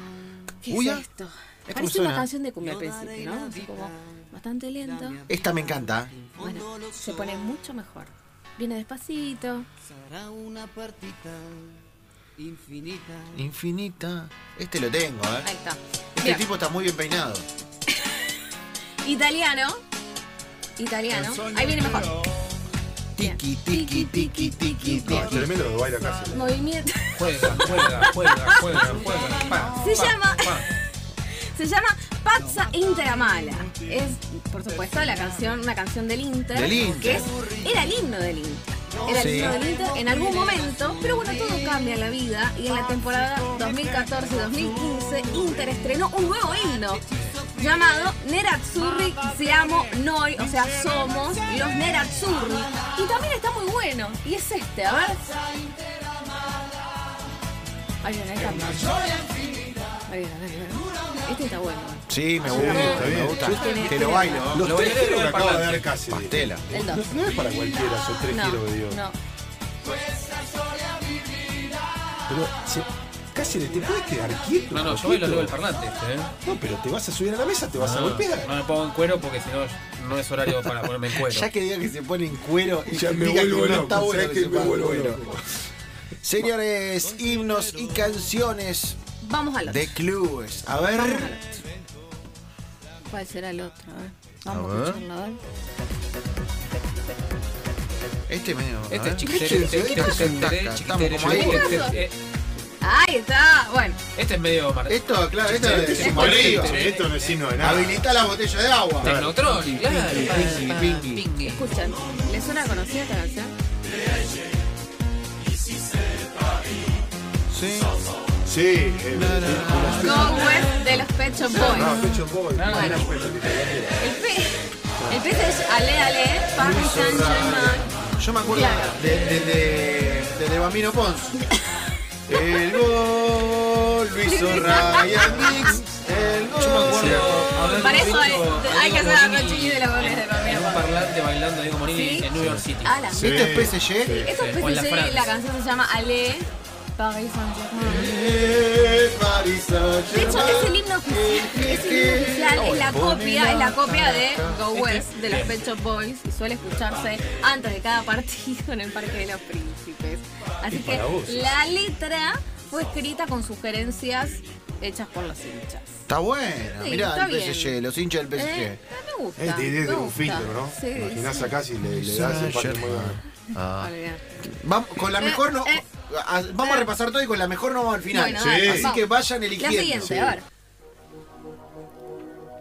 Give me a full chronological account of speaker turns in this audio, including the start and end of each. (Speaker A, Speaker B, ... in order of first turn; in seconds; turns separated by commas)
Speaker A: 0.6-5.2, Speaker B: 0.7-1.0, Speaker B: 1.7-2.3, Speaker B: 5.3-6.1, Speaker A: 6.3-9.7, Speaker C: 10.1-11.8, Speaker C: 12.5-13.3, Speaker B: 13.3-15.5, Speaker A: 15.4-16.4, Speaker B: 16.2-17.4, Speaker A: 17.9-18.4, Speaker A: 19.0-19.8, Speaker A: 20.8-22.2, Speaker B: 23.1-25.5, Speaker A: 23.2-25.4, Speaker D: 25.0-26.5, Speaker A: 26.3-28.8, Speaker E: 27.1-30.7, Speaker A: 29.8-30.6, Speaker A: 31.3-55.4, Speaker B: 36.5-37.3, Speaker B: 39.1-39.6, Speaker A: 58.0-59.2, Speaker A: 60.1-64.6, Speaker B: 62.1-64.7, Speaker D: 62.4-69.0, Speaker E: 64.6-65.9, Speaker B: 66.1-66.6, Speaker A: 66.7-67.1, Speaker A: 68.3-69.2, Speaker D: 72.3-75.5, Speaker E: 74.7-76.3, Speaker D: 76.4-78.5, Speaker E: 77.7-81.5, Speaker B: 81.1-85.2, Speaker D: 82.9-85.6, Speaker B: 86.2-89.0, Speaker A: 89.2-89.9, Speaker B: 89.6-91.3, Speaker A: 90.9-91.6, Speaker A: 93.1-95.4, Speaker B: 94.5-95.0, Speaker B: 98.3-101.9, Speaker E: 98.9-102.1, Speaker D: 99.2-100.3, Speaker A: 101.2-102.0, Speaker A: 102.8-104.0, Speaker E: 104.1-107.3, Speaker B: 104.9-106.7, Speaker D: 105.5-108.3, Speaker A: 106.0-107.1, Speaker B: 107.6-111.2, Speaker D: 109.0-109.4, Speaker E: 109.0-111.7, Speaker A: 111.4-113.5, Speaker B: 117.5-118.0, Speaker D: 118.4-120.8, Speaker B: 119.1-120.6, Speaker A: 120.0-122.0, Speaker D: 121.5-124.1, Speaker E: 122.5-123.1, Speaker A: 122.6-123.1, Speaker A: 124.0-127.9, Speaker D: 125.0-125.3, Speaker B: 126.6-131.4, Speaker A: 128.5-129.0, Speaker B: 132.3-137.5, Speaker A: 134.2-135.7, Speaker E: 136.6-143.0, Speaker D: 136.6-137.5, Speaker A: 137.7-140.9, Speaker A: 141.9-142.3, Speaker D: 142.4-144.3, Speaker A: 142.8-148.1, Speaker B: 143.2-144.2, Speaker E: 144.2-145.3, Speaker B: 147.8-154.6, Speaker A: 150.1-166.0, Speaker E: 154.7-155.5, Speaker D: 160.7-161.5, Speaker B: 166.1-168.8, Speaker A: 166.8-167.8, Speaker A: 168.3-171.5, Speaker D: 169.4-173.2, Speaker B: 171.8-180.3, Speaker A: 173.5-174.2, Speaker A: 175.2-175.8, Speaker A: 176.6-176.9, Speaker A: 178.1-180.4, Speaker D: 178.4-178.9, Speaker D: 180.0-180.4